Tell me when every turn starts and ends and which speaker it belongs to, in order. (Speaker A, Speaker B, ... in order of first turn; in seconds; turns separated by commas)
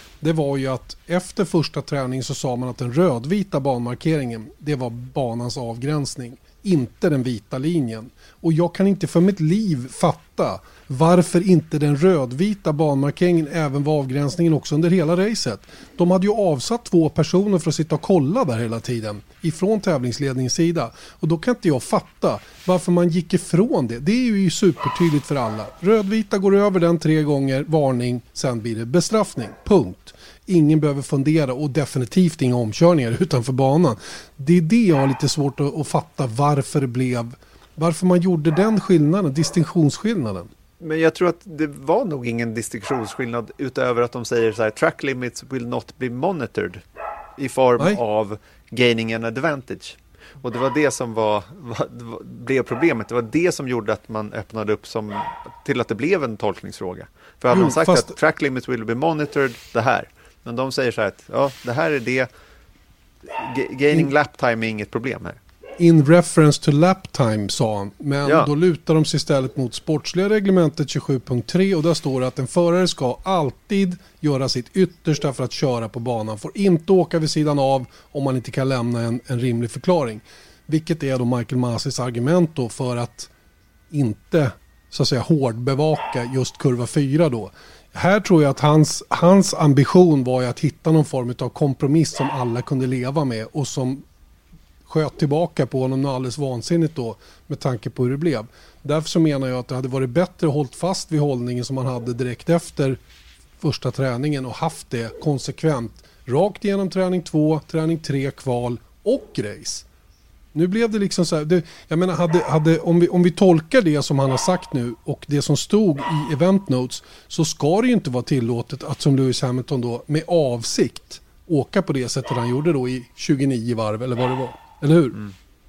Speaker A: 0.2-40.5, Speaker B: 40.8-46.8, Speaker B: 47.4-62.3, Speaker A: 57.5-58.1, Speaker B: 63.3-65.4, Speaker A: 65.8-83.3, Speaker B: 68.2-68.5, Speaker A: 83.9-94.0, Speaker A: 94.9-103.0, Speaker A: 103.6-109.9, Speaker A: 110.5-125.2